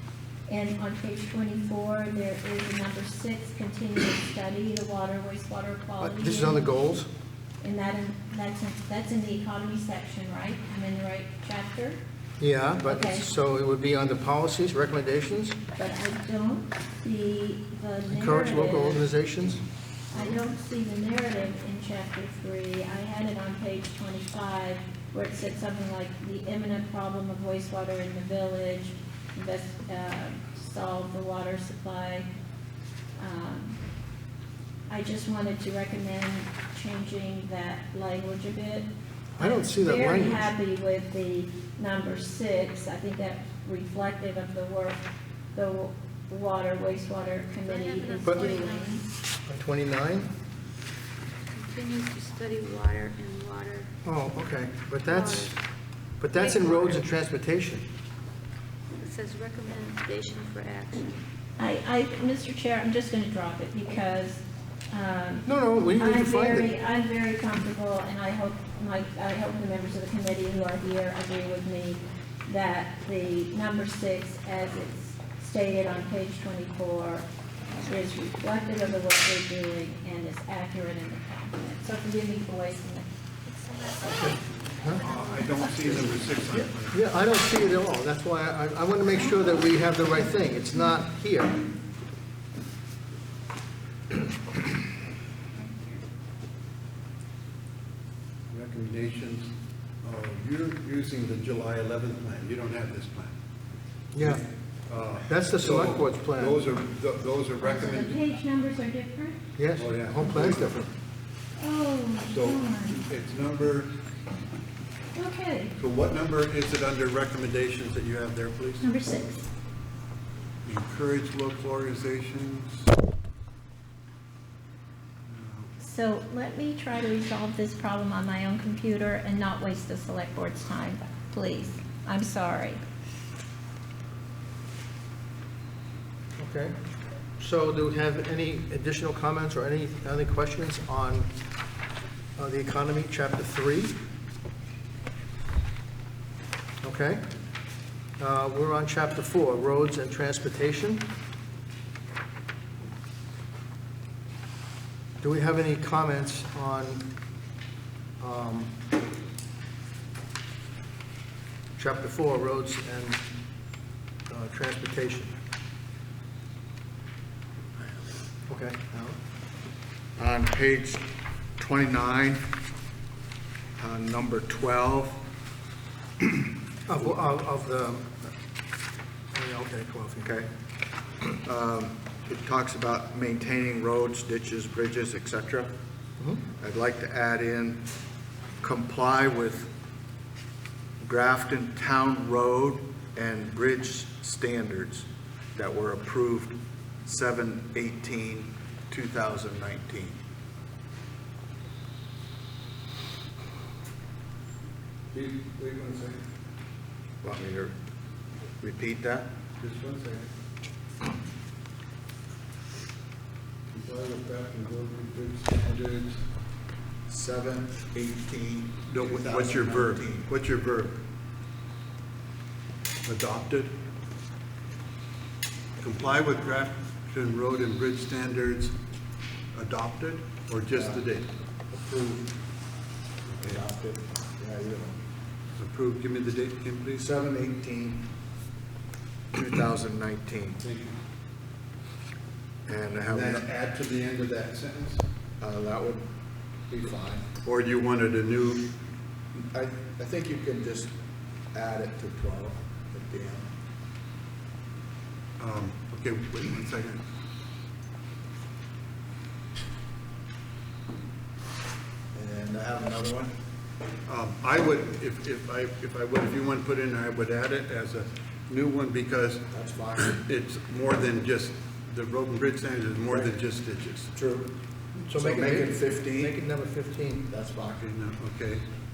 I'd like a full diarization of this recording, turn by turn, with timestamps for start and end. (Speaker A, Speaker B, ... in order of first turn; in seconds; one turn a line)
Speaker A: 0.5-6.6
Speaker B: 6.0-7.1
Speaker A: 7.6-12.0
Speaker B: 12.4-15.6
Speaker A: 12.8-13.3
Speaker A: 15.8-19.1
Speaker B: 18.1-19.6
Speaker A: 20.1-32.3
Speaker A: 33.2-33.8
Speaker A: 34.9-45.0
Speaker B: 39.4-40.5
Speaker A: 45.5-49.0
Speaker C: 47.6-49.0
Speaker B: 48.2-48.5
Speaker B: 49.5-50.3
Speaker C: 51.5-53.9
Speaker B: 54.0-55.6
Speaker C: 55.0-55.6
Speaker B: 56.2-57.9
Speaker C: 56.3-56.9
Speaker C: 59.0-61.1
Speaker A: 61.6-77.2
Speaker B: 65.5-66.7
Speaker A: 77.9-84.3
Speaker B: 84.1-85.0
Speaker D: 85.0-87.0
Speaker A: 85.1-85.7
Speaker B: 86.6-91.6
Speaker A: 95.5-96.0
Speaker D: 98.5-103.3
Speaker B: 104.1-104.4
Speaker D: 104.2-108.2
Speaker B: 105.3-106.6
Speaker A: 107.6-109.4
Speaker B: 109.6-110.9
Speaker D: 109.7-110.9
Speaker A: 111.6-113.0
Speaker D: 112.3-113.9
Speaker A: 115.1-115.7
Speaker D: 115.8-118.8
Speaker A: 118.8-119.5
Speaker D: 120.6-122.9
Speaker D: 125.2-125.7
Speaker A: 125.8-132.8
Speaker B: 136.4-136.8
Speaker B: 137.4-141.3
Speaker B: 142.4-143.9
Speaker B: 146.8-147.2
Speaker B: 148.2-151.1
Speaker B: 155.2-157.1
Speaker B: 158.2-158.8
Speaker B: 161.8-163.2
Speaker B: 164.3-165.4
Speaker B: 168.5-169.2
Speaker E: 170.2-171.0
Speaker E: 171.6-172.4
Speaker E: 173.8-175.2
Speaker E: 176.2-176.5
Speaker B: 176.9-178.3
Speaker B: 179.3-180.5
Speaker E: 181.4-185.7
Speaker B: 186.2-186.4
Speaker E: 186.5-187.8
Speaker E: 188.6-189.7
Speaker E: 191.0-200.2
Speaker B: 205.1-206.2
Speaker E: 207.2-207.8
Speaker E: 208.6-209.3
Speaker B: 209.6-210.2
Speaker D: 213.7-216.2
Speaker E: 217.1-220.3
Speaker D: 218.9-221.0
Speaker D: 223.0-223.8
Speaker D: 225.8-228.7
Speaker D: 229.5-231.3
Speaker E: 230.7-231.0
Speaker E: 231.7-232.3
Speaker D: 233.3-233.6
Speaker E: 233.4-234.9
Speaker D: 235.6-237.1
Speaker E: 237.0-238.1
Speaker E: 239.3-240.6
Speaker D: 240.6-241.0
Speaker E: 242.7-243.5
Speaker D: 243.1-245.0
Speaker E: 245.4-246.1
Speaker E: 246.7-247.3
Speaker D: 247.4-248.7
Speaker E: 249.3-250.9
Speaker E: 251.5-253.5
Speaker D: 255.4-257.0
Speaker E: 262.1-263.3
Speaker D: 264.1-274.1
Speaker E: 269.5-270.2
Speaker E: 274.1-274.5
Speaker B: 275.1-277.3
Speaker E: 275.1-276.3
Speaker E: 277.3-277.8
Speaker D: 277.7-278.6